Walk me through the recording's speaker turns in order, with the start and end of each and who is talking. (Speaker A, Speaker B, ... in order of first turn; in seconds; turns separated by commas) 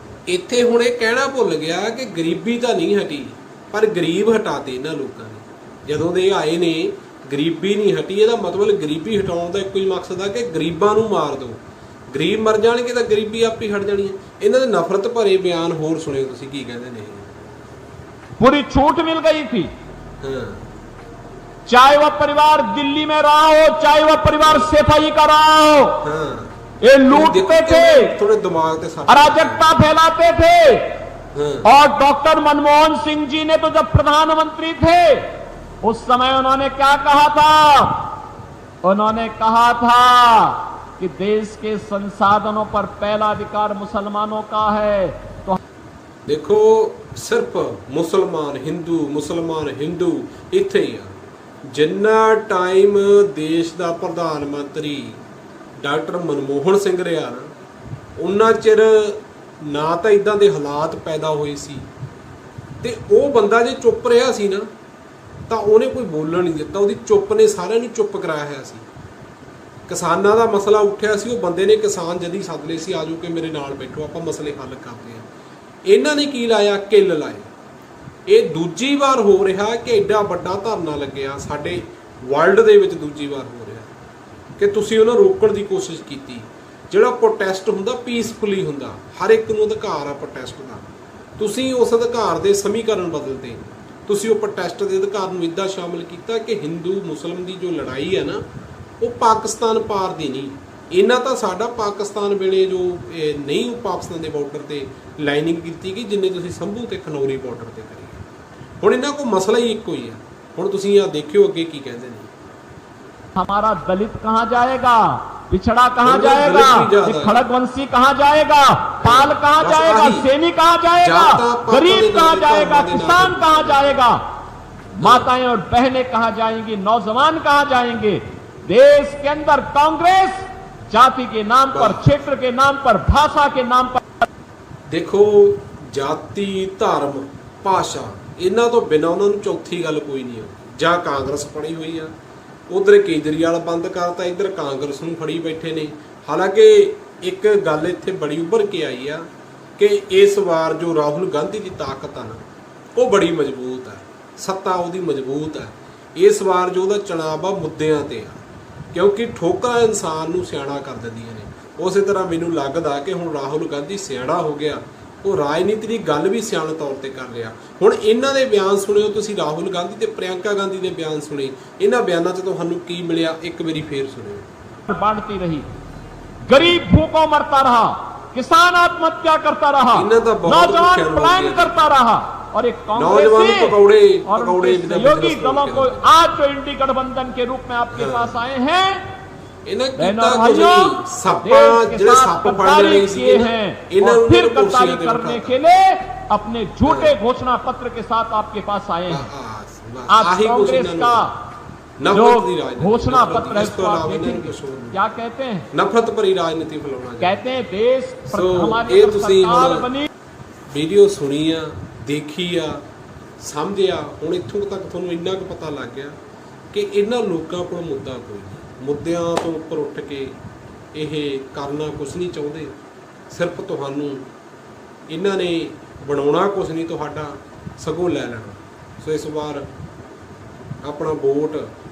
Speaker A: 0.3-17.3, Speaker B: 18.4-19.7, Speaker A: 20.2-20.7, Speaker B: 21.6-26.0, Speaker A: 24.4-24.7, Speaker A: 26.0-26.6, Speaker B: 26.8-28.1, Speaker A: 27.1-29.7, Speaker B: 29.1-30.9, Speaker A: 31.3-31.7, Speaker B: 31.6-35.2, Speaker B: 35.8-38.1, Speaker B: 38.8-45.6, Speaker A: 46.2-55.2, Speaker A: 55.8-57.5, Speaker A: 58.2-61.9, Speaker A: 62.8-64.7, Speaker A: 65.5-68.8, Speaker A: 69.9-75.2, Speaker A: 75.8-77.5, Speaker A: 78.3-83.9, Speaker A: 84.6-98.4, Speaker A: 99.0-108.2, Speaker A: 108.8-112.3, Speaker B: 113.3-124.2, Speaker A: 116.0-117.4, Speaker A: 119.0-120.3, Speaker A: 121.0-124.1, Speaker B: 125.0-134.2, Speaker A: 125.0-125.3, Speaker A: 131.7-132.1, Speaker A: 134.9-142.1, Speaker A: 142.7-152.4, Speaker A: 152.9-158.4, Speaker A: 158.9-174.5, Speaker B: 174.9-175.6, Speaker B: 176.4-189.0, Speaker A: 176.5-176.8, Speaker A: 179.9-181.8, Speaker A: 182.9-186.1, Speaker A: 187.9-188.4, Speaker A: 189.7-195.6, Speaker B: 190.0-199.2, Speaker A: 196.8-197.2, Speaker A: 199.1-201.3, Speaker B: 200.1-201.3, Speaker A: 202.0-205.0, Speaker B: 202.1-205.7, Speaker A: 205.7-207.4, Speaker B: 207.2-210.1, Speaker A: 208.3-209.9, Speaker A: 210.7-212.8, Speaker A: 213.4-216.2, Speaker A: 216.7-220.3, Speaker A: 220.9-222.8, Speaker A: 223.3-224.3, Speaker A: 225.1-229.7, Speaker A: 230.8-231.7